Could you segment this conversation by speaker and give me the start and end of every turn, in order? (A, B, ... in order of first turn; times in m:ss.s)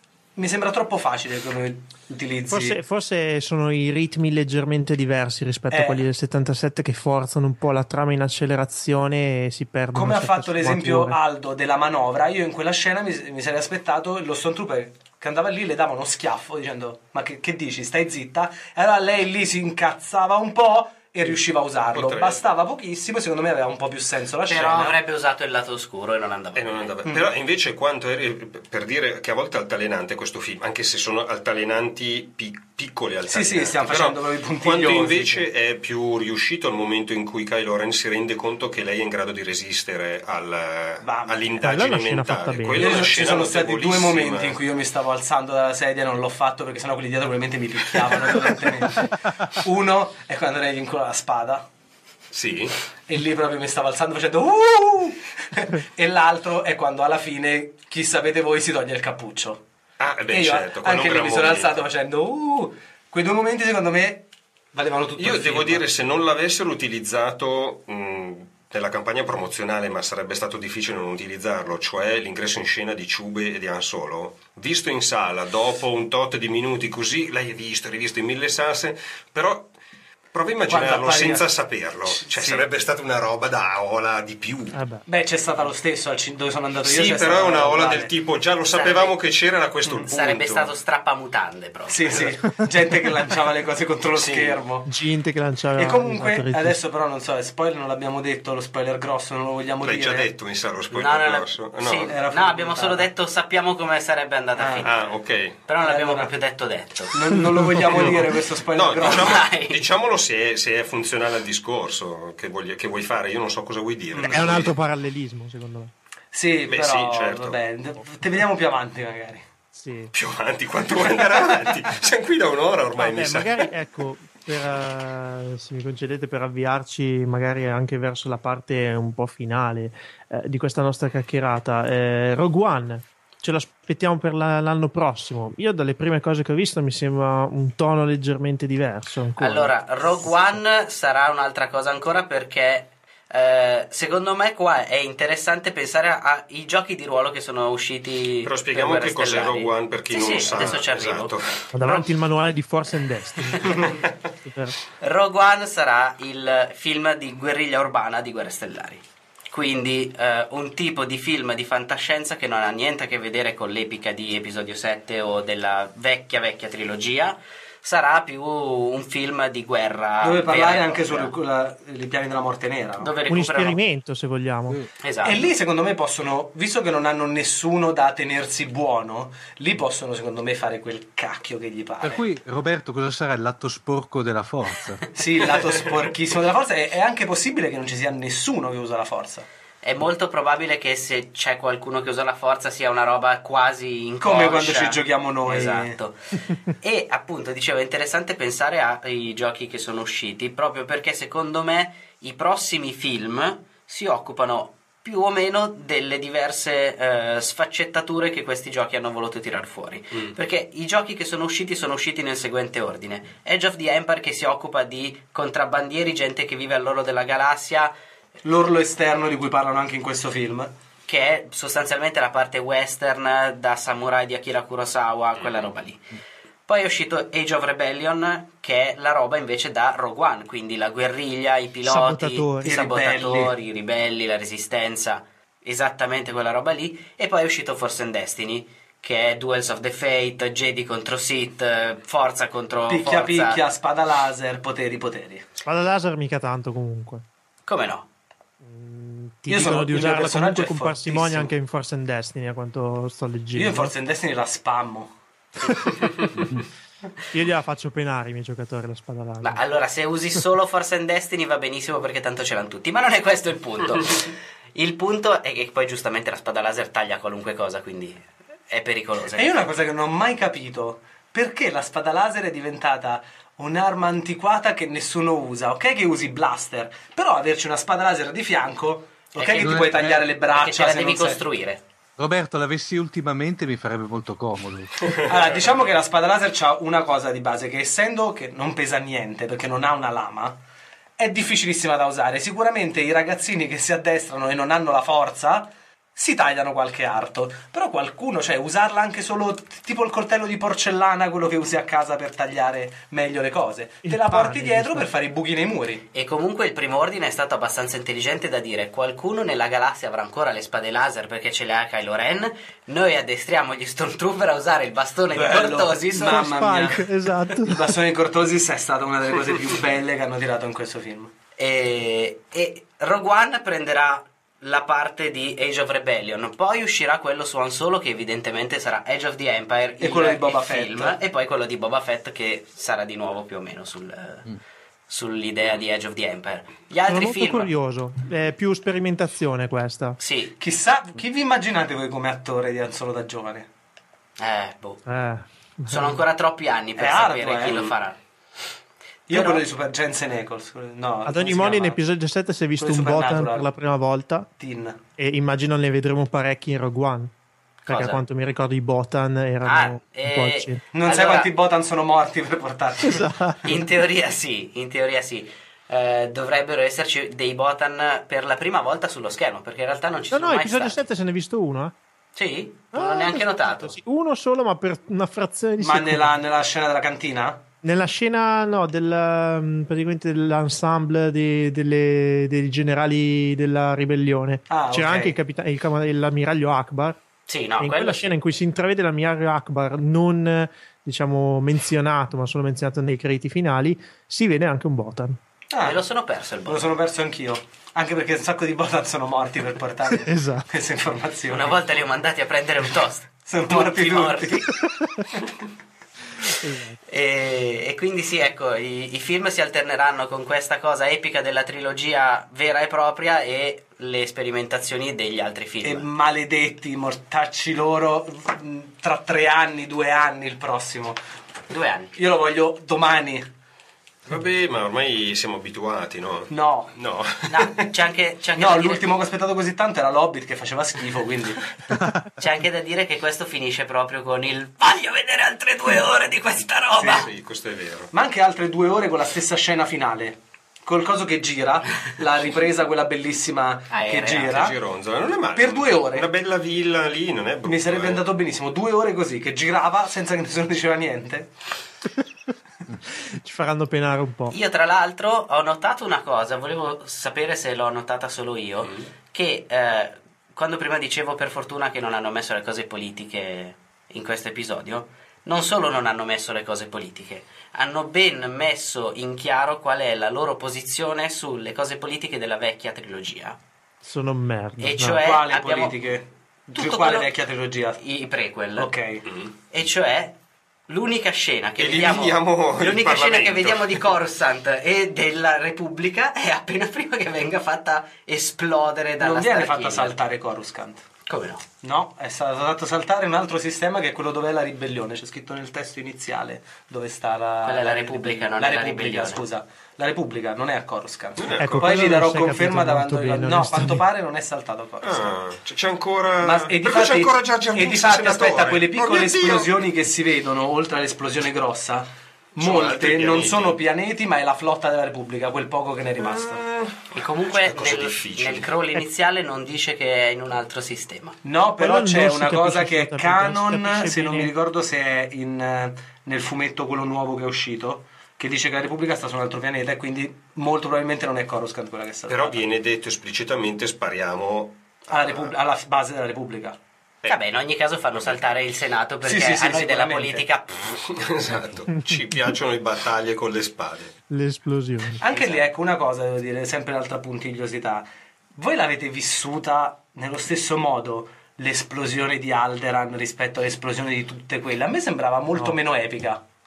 0:00.4-0:02.8 A
0:02.5-0:11.2 B
0:05.7-0:06.0 A
0:09.9-0:25.0 A
0:21.9-0:22.4 C
0:24.5-0:26.9 D
0:26.5-0:44.6 C
0:33.3-0:35.5 A
0:41.0-0:41.7 A
0:41.6-0:43.0 B
0:42.8-0:51.6 A
0:48.1-0:48.7 C
0:52.3-0:52.7 C
0:53.1-0:59.6 A
1:00.0-1:01.8 C
1:00.3-1:05.8 A
1:05.2-1:19.7 C
1:20.3-1:24.7 C
1:20.7-1:21.5 A
1:22.1-1:22.6 A
1:24.7-1:25.0 B
1:25.1-1:28.1 A
1:26.8-1:30.7 C
1:28.7-1:29.2 D
1:30.1-1:32.3 D
1:31.9-1:34.9 A
1:34.1-1:34.6 C
1:34.9-1:36.8 B
1:35.8-1:40.3 A
1:39.8-1:42.2 C
1:40.9-1:45.1 D
1:42.1-1:43.1 A
1:44.6-1:44.9 A
1:44.8-1:45.6 C
1:45.6-1:47.1 D
1:45.8-1:46.3 A
1:47.1-1:49.4 A
1:47.8-1:48.2 B
1:47.9-1:48.2 C
1:48.7-1:54.7 C
1:49.0-1:49.8 D
1:54.1-1:54.6 A
1:54.3-1:55.9 B
1:56.3-1:59.4 A
1:56.7-1:57.6 C
1:59.7-2:00.1 B
2:00.1-2:03.7 C
2:03.0-2:20.6 B
2:19.4-2:32.1 D
2:28.4-2:31.6 C
2:31.7-2:33.9 B
2:34.4-2:34.8 B
2:35.0-2:51.3 D
2:50.2-2:53.1 A
2:53.0-2:53.8 D
2:53.3-2:54.8 B
2:55.0-2:55.4 D
2:55.2-3:02.2 A
3:02.0-3:05.0 E
3:05.1-3:09.4 A
3:09.8-3:37.9 D
3:14.2-3:16.0 A
3:38.4-3:40.7 A
3:41.1-3:46.1 D
3:45.4-3:45.7 C
3:46.7-4:03.6 D
3:51.8-3:52.9 B
3:52.6-3:53.5 A
4:02.9-4:05.5 A
4:05.6-4:07.2 B
4:07.7-4:08.0 D
4:08.6-4:13.9 B
4:09.5-4:11.5 A
4:13.5-4:15.1 A
4:17.3-4:19.6 B
4:19.4-4:29.5 D
4:29.3-4:41.4 A
4:39.3-4:41.8 D
4:39.6-4:40.2 E
4:42.2-4:45.1 E
4:45.3-4:50.6 A
4:51.2-5:06.0 A
5:04.0-5:05.1 B
5:06.1-5:16.9 D
5:15.3-5:21.3 A
5:16.2-5:17.9 B
5:21.6-5:34.5 D
5:30.0-5:31.2 A
5:35.1-5:37.7 D
5:37.1-5:40.2 B
5:40.2-5:40.5 D
5:40.6-5:43.7 A
5:44.4-5:45.0 D
5:45.0-5:46.2 B
5:45.9-5:48.2 D
5:47.0-5:47.9 A
5:49.3-5:52.0 A
5:49.3-5:49.6 D
5:51.2-5:54.5 B
5:52.8-5:53.7 A
5:54.6-5:55.0 A
5:55.2-5:57.3 B
5:57.8-5:58.2 D
5:57.9-6:00.8 B
5:59.6-6:01.5 D
6:00.9-6:03.2 A
6:03.0-6:03.8 B
6:03.6-6:11.0 D
6:10.3-6:11.9 B
6:12.4-6:14.0 D
6:12.9-6:16.3 B
6:15.8-6:17.6 A
6:17.8-6:27.2 B
6:24.7-6:25.3 A
6:27.5-6:28.3 D
6:27.8-6:35.4 B
6:35.7-6:36.0 A
6:35.8-6:36.9 D
6:36.6-6:41.8 A
6:40.1-6:40.7 B
6:41.5-6:44.7 D
6:43.4-6:44.8 A
6:44.9-6:45.3 B
6:46.6-6:47.0 B
6:47.1-6:56.1 D
6:55.8-7:01.2 A
7:01.7-7:02.1 D
7:02.1-7:03.5 A
7:04.3-7:07.5 C
7:06.5-7:06.9 A
7:07.5-7:09.1 D
7:08.6-7:11.7 A
7:12.4-7:17.3 D
7:17.0-7:18.1 C
7:18.1-7:24.8 A
7:23.9-7:24.6 D
7:24.5-7:28.2 C
7:25.5-7:26.3 A
7:27.6-7:31.5 A
7:33.2-7:34.6 B
7:34.5-7:53.6 D
7:54.0-7:55.2 B
7:54.8-7:56.0 D
7:55.1-7:58.0 A
7:56.7-7:57.3 D
7:58.0-7:58.9 D
7:58.8-7:59.2 A
7:59.7-8:00.3 D
8:00.9-8:10.2 D
8:01.8-8:04.1 C
8:09.2-8:11.0 A
8:11.3-8:11.6 D
8:11.8-8:25.3 A
8:17.6-8:19.4 D
8:21.4-8:22.0 C
8:21.6-8:24.0 B
8:25.0-8:29.8 C
8:26.4-8:36.6 A
8:32.6-8:33.8 C
8:36.2-8:38.7 C
8:37.1-8:41.4 D
8:41.4-8:52.6 A
8:41.8-8:44.5 B
8:52.3-8:55.5 C
8:55.1-8:56.8 A
8:57.2-9:01.0 D
8:58.2-8:58.4 C
8:59.2-9:00.4 A
9:01.0-9:04.2 C
9:04.3-9:05.2 B
9:05.2-9:16.4 A
9:05.3-9:05.6 C